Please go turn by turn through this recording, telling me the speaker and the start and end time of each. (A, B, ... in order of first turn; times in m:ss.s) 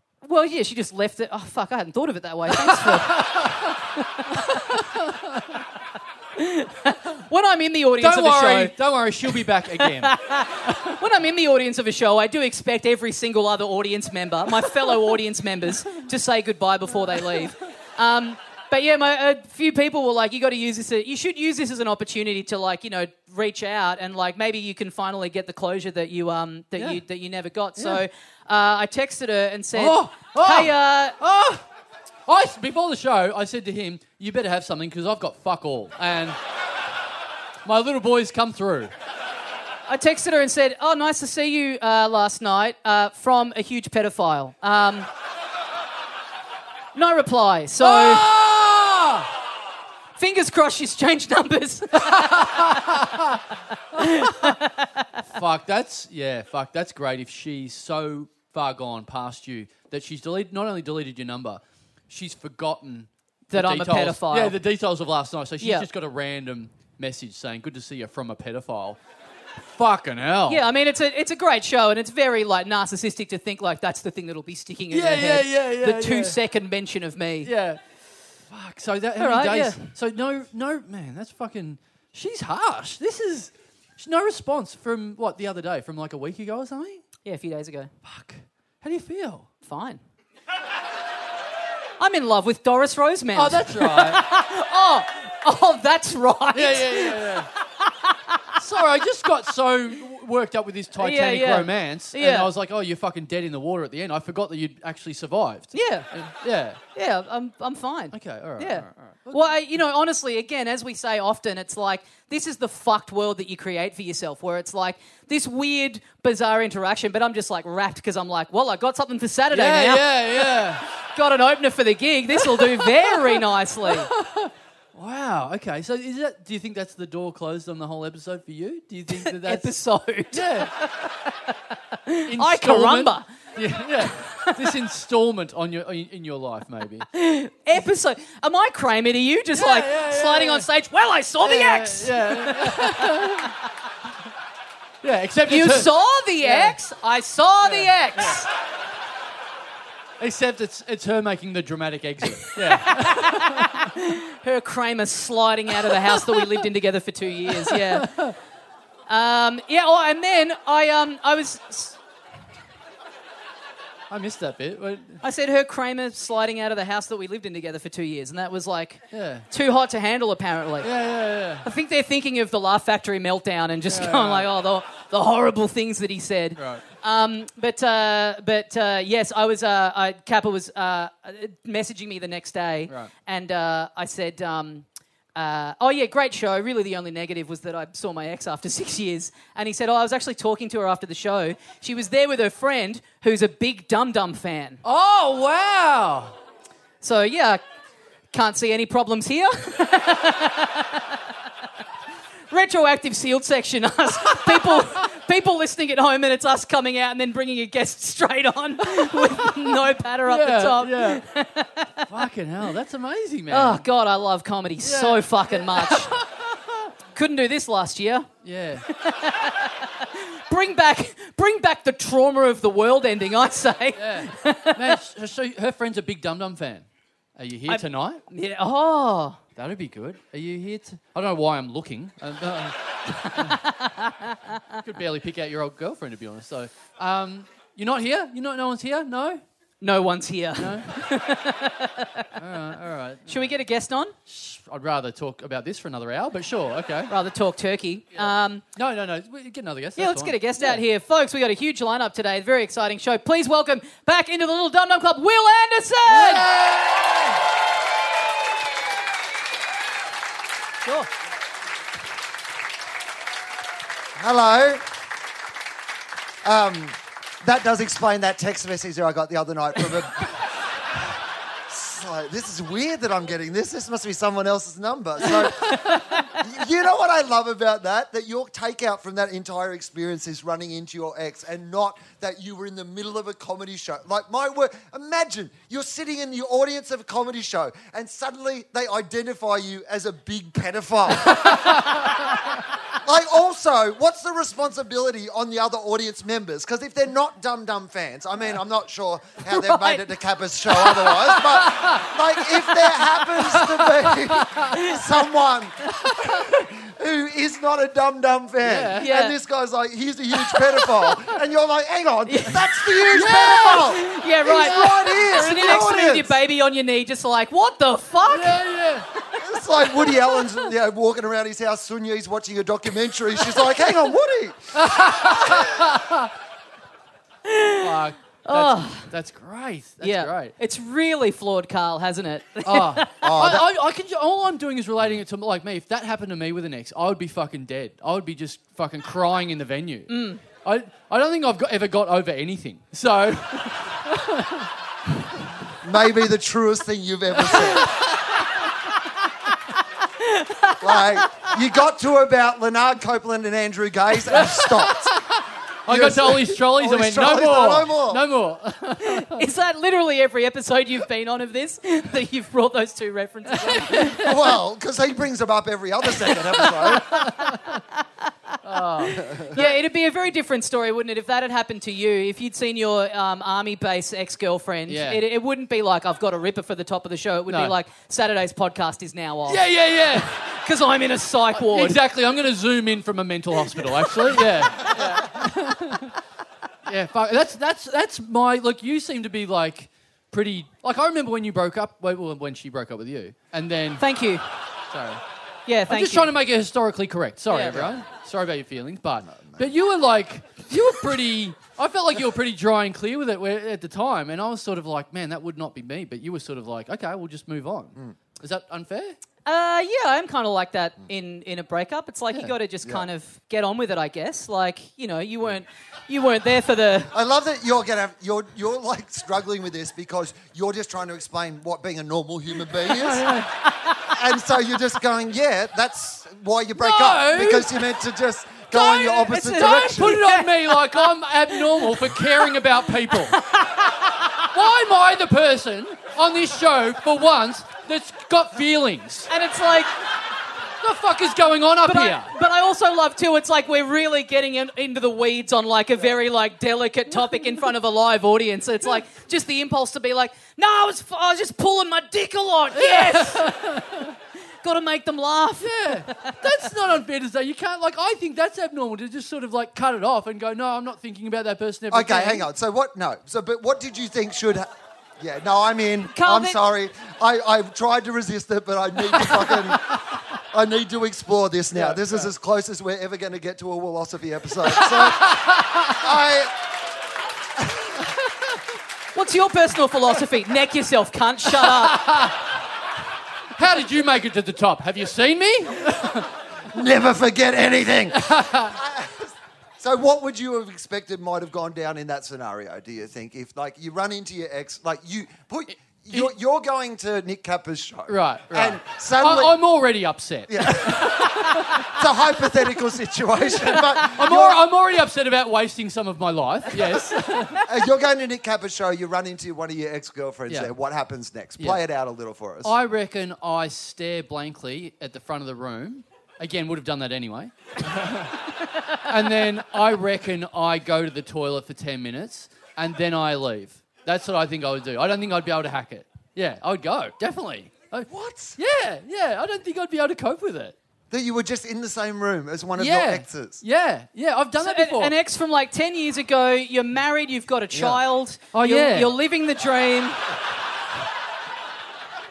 0:00.2-0:04.6 A
0:02.5-0:03.8 B
0:04.3-0:05.6 B
0:06.4-0:08.7 A
0:08.0-0:11.0 B
0:09.8-0:31.2 A
0:14.7-0:15.0 B
0:17.2-0:17.5 B
0:27.8-0:28.0 B
0:29.7-0:31.6 B
0:32.3-0:36.4 B
0:37.6-0:38.9 B
0:39.9-0:45.1 A
0:46.9-0:48.2 A
0:47.8-0:49.3 B
0:50.2-0:53.2 A
0:52.0-0:53.4 B
0:53.9-0:55.0 A
0:54.2-0:54.5 B
0:55.3-1:09.0 B
1:03.5-1:04.6 A
1:05.6-1:05.8 A
1:09.7-1:10.6 B
1:10.5-1:17.5 A
1:14.9-1:16.4 B
1:17.4-1:17.8 B
1:18.5-1:27.0 B
1:19.2-1:19.8 A
1:27.2-1:27.9 A
1:28.0-1:29.5 B
1:29.6-1:30.0 A
1:32.0-1:37.3 A
1:33.4-1:34.2 B
1:36.5-1:37.5 B
1:37.8-1:38.4 A
1:38.6-1:46.8 B
1:41.0-1:42.5 A
1:45.7-1:46.1 A
1:47.0-2:04.1 A
1:48.1-1:49.5 B
1:59.5-2:00.8 B
2:02.4-2:09.7 B
2:09.1-2:11.5 A
2:10.3-2:10.7 B
2:12.0-2:13.2 A
2:12.2-2:17.1 B
2:14.0-2:14.7 A
2:17.1-2:23.5 A
2:19.5-2:20.7 B
2:21.4-2:23.5 B
2:25.0-2:25.9 B
2:25.4-2:28.5 A
2:26.4-2:26.8 B
2:27.6-2:28.4 B
2:30.2-2:33.9 B
2:32.4-2:38.1 A
2:36.1-2:36.6 B
2:37.5-2:38.3 B
2:39.1-2:42.0 A
2:44.1-2:45.2 B
2:45.2-2:50.9 A
2:49.1-2:49.4 B
2:50.8-2:51.6 B
2:51.6-3:14.8 A
2:53.9-2:54.5 B
2:56.6-2:56.8 B
3:14.8-3:16.3 B
3:17.0-3:17.6 A
3:18.3-3:21.0 A
3:22.5-3:32.1 A
3:24.3-3:25.0 B
3:28.9-3:31.2 B
3:32.1-3:33.8 B
3:33.5-3:36.1 A
3:34.8-3:36.9 B
3:37.1-3:38.3 A
3:38.4-3:38.8 B
3:38.9-3:45.0 A
3:44.0-3:46.8 B
3:47.4-3:48.2 B
3:47.7-3:49.4 A
3:49.6-3:53.6 B
3:53.2-3:54.6 A
3:54.8-3:59.4 B
3:59.8-4:02.3 A
4:00.6-4:01.0 B
4:02.4-4:03.5 B
4:03.3-4:04.1 A
4:04.3-4:07.1 B
4:07.1-4:08.6 A
4:08.2-4:10.8 B
4:10.0-4:16.5 A
4:16.1-4:17.4 B
4:24.2-4:24.8 C
4:26.4-4:31.1 C
4:31.7-4:52.0 C
4:35.6-4:36.0 A
4:51.4-4:52.1 B
4:53.0-5:16.4 C
4:59.6-5:00.0 A
5:01.0-5:04.8 B
5:04.7-5:05.0 A
5:06.1-5:06.4 B
5:08.6-5:09.1 B
5:09.0-5:09.3 A
5:12.3-5:18.6 A
5:13.1-5:15.8 B
5:18.3-5:19.1 B
5:19.4-5:25.7 C
5:20.0-5:20.3 A
5:24.7-5:26.3 B
5:27.4-5:27.9 A
5:27.8-5:30.5 B
5:28.4-5:29.1 A
5:30.0-5:33.2 A
5:32.6-5:44.7 B
5:33.2-5:33.7 C
5:40.1-5:40.4 A
5:45.8-5:47.9 C
5:50.2-5:51.5 A
5:50.8-5:55.2 C
5:54.3-5:59.4 B
5:55.9-5:58.2 C
5:59.0-6:04.2 A
6:03.5-6:04.5 B
6:04.1-6:07.2 C
6:06.6-6:08.0 A
6:07.1-6:07.8 B
6:08.6-6:09.8 B
6:09.0-6:22.0 A
6:09.2-6:09.6 C
6:14.9-6:15.2 B
6:17.5-6:17.7 B
6:19.5-6:20.5 B
6:21.6-6:26.2 B
6:26.8-6:34.0 B
6:34.0-6:34.4 A
6:34.9-6:35.2 B
6:35.7-6:36.3 A
6:35.9-6:49.2 B
6:37.5-6:37.9 A
6:39.3-6:39.7 C
6:49.4-6:57.1 A
6:57.1-7:03.4 C
7:02.8-7:03.5 B
7:03.7-7:04.1 A
7:04.1-7:10.2 C
7:06.8-7:07.8 B
7:08.7-7:12.4 A
7:09.4-7:13.4 B
7:13.1-7:14.5 A
7:14.4-7:19.3 B
7:19.3-7:19.9 A
7:20.8-7:22.3 B
7:21.8-7:33.8 A
7:32.7-7:34.1 B
7:34.6-7:36.4 A
7:35.6-7:42.5 B
7:41.9-7:44.7 C
7:45.2-7:56.5 C
7:46.1-7:46.6 A
7:51.7-7:52.3 B
7:54.6-7:56.0 B
7:59.1-8:02.1 A
8:01.6-8:02.4 B
8:03.6-8:06.3 B
8:06.7-8:19.6 C
8:08.1-8:08.8 B
8:18.1-8:21.9 B
8:20.5-8:24.6 C
8:23.6-8:27.6 B
8:27.6-8:32.7 C
8:32.6-8:38.4 B
8:39.0-8:50.7 B
8:48.1-8:48.6 C
8:51.1-8:53.6 C
8:52.8-8:55.1 B
8:54.6-9:00.2 A
8:57.7-8:58.0 C
8:58.5-8:59.1 B